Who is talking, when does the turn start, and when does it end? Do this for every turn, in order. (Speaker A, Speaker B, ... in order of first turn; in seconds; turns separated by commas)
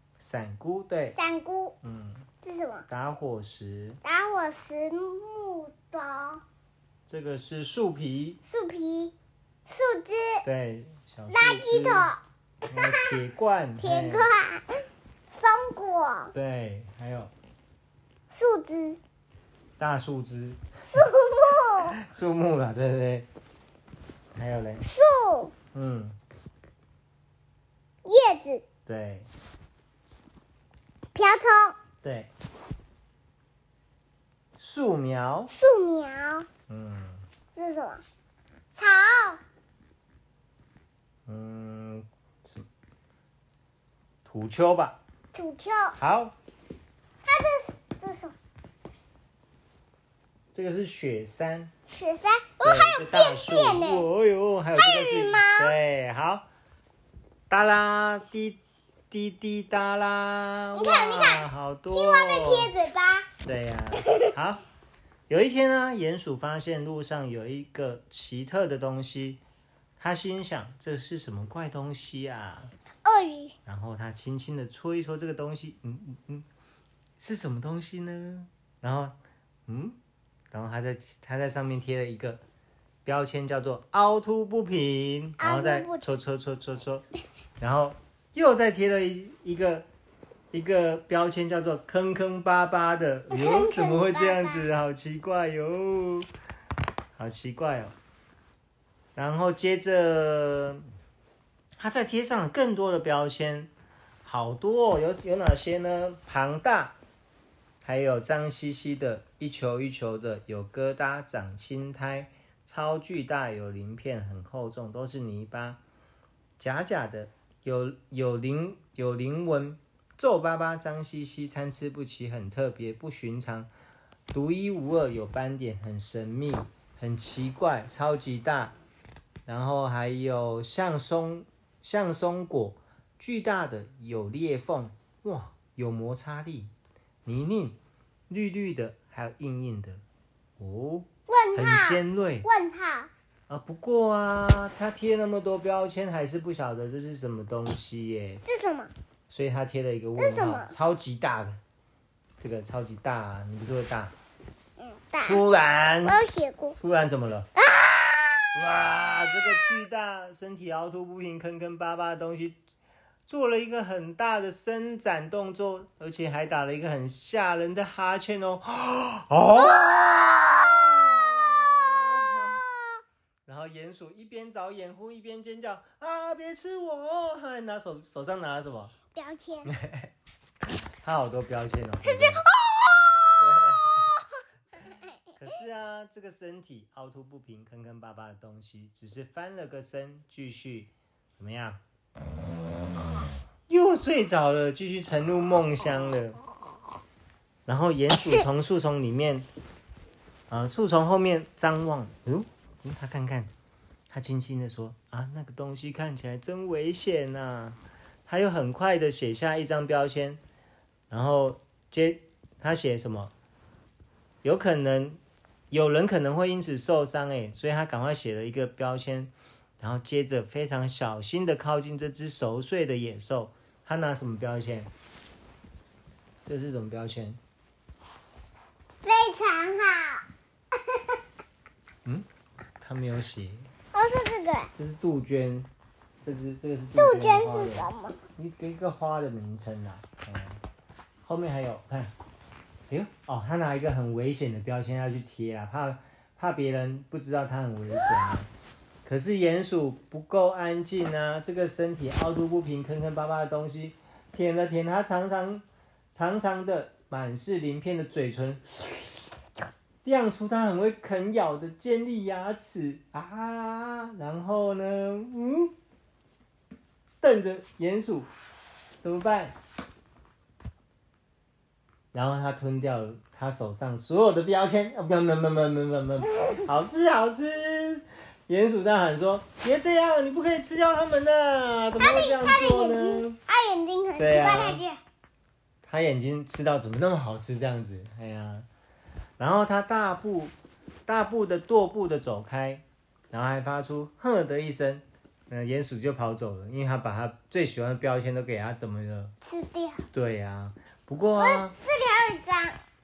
Speaker A: 0.2-1.2, Speaker B: 1.2-1.8, Speaker A: 1.8-2.3, Speaker B: 2.4-2.9, Speaker A: 2.9-4.0, Speaker B: 4.0-6.4, Speaker A: 7.1-8.4, Speaker B: 8.4-9.1, Speaker B: 9.7-10.4, Speaker A: 10.4-12.1, Speaker B: 11.3-13.1, Speaker A: 12.7-14.3, Speaker B: 13.8-14.7, Speaker B: 15.3-16.3, Speaker A: 16.3-17.3, Speaker B: 18.3-19.0, Speaker A: 19.8-21.1, Speaker B: 20.9-21.9, Speaker A: 21.7-23.3, Speaker A: 24.4-24.9, Speaker B: 24.8-25.6, Speaker A: 25.7-26.2, Speaker B: 28.1-28.7, Speaker A: 28.9-29.3, Speaker B: 31.1-31.8, Speaker A: 32.0-32.3, Speaker A: 34.6-35.5, Speaker B: 35.5-36.5, Speaker A: 36.7-37.3, Speaker B: 37.5-38.0, Speaker B: 38.8-39.4, Speaker A: 41.3-42.7, Speaker A: 44.2-45.0, Speaker B: 45.3-46.0, Speaker A: 46.0-46.4, Speaker B: 47.2-48.3, Speaker A: 50.5-51.7, Speaker B: 51.9-54.1, Speaker A: 52.6-56.5, Speaker B: 54.7-55.8, Speaker A: 57.5-58.6, Speaker A: 59.1-62.7, Speaker B: 60.7-63.3, Speaker A: 63.5-64.6, Speaker A: 65.3-69.4, Speaker A: 70.0-72.7, Speaker B: 73.0-73.5, Speaker A: 73.7-76.5, Speaker A: 77.2-79.2, Speaker A: 79.7-80.0, Speaker A: 80.5-82.4, Speaker A: 83.1-87.0, Speaker B: 85.4-86.0, Speaker A: 87.6-89.8, Speaker A: 90.5-96.3, Speaker B: 93.3-94.7, Speaker A: 97.2-98.0, Speaker A: 99.2-100.8, Speaker A: 101.8-103.7, Speaker A: 104.2-107.0, Speaker A: 107.8-115.8, Speaker A: 116.6-123.7, Speaker A: 124.3-128.7, Speaker A: 129.5-136.7, Speaker A: 137.2-137.8, Speaker A: 138.3-140.0, Speaker A: 140.6-142.5, Speaker B: 141.3-143.1, Speaker A: 143.5-148.4, Speaker B: 148.4-148.9, Speaker A: 149.3-151.6, Speaker B: 150.2-150.7, Speaker A: 152.4-154.1, Speaker B: 154.8-155.4, Speaker A: 155.2-156.2, Speaker B: 156.1-156.8, Speaker A: 156.8-157.5, Speaker B: 157.6-158.5, Speaker A: 158.5-162.6, Speaker A: 163.3-172.6, Speaker A: 173.5-179.0, Speaker B: 179.1-179.7, Speaker A: 179.7-180.1, Speaker A: 181.0-182.5, Speaker B: 182.1-183.2, Speaker A: 183.4-184.1, Speaker A: 185.4-191.8, Speaker A: 193.7-196.4, Speaker A: 197.7-199.5, Speaker A: 200.5-203.5, Speaker A: 204.1-210.4, Speaker A: 211.1-213.3, Speaker A: 214.4-215.2, Speaker A: 215.7-224.9, Speaker A: 226.4-227.4, Speaker B: 229.0-230.2, Speaker B: 230.8-231.2, Speaker A: 232.8-233.7, Speaker B: 233.9-234.7, Speaker A: 234.8-235.7, Speaker A: 236.2-240.6, Speaker B: 237.0-238.2, Speaker A: 241.2-242.1, Speaker A: 242.9-248.5, Speaker A: 249.1-258.8, Speaker A: 260.0-265.7, Speaker A: 267.2-268.3, Speaker A: 269.0-269.6, Speaker A: 272.1-283.4, Speaker B: 282.0-285.0, Speaker A: 284.2-284.8, Speaker A: 285.8-288.7, Speaker A: 289.4-290.5, Speaker A: 291.1-299.3, Speaker B: 299.4-300.1, Speaker A: 300.1-301.8, Speaker B: 301.4-302.8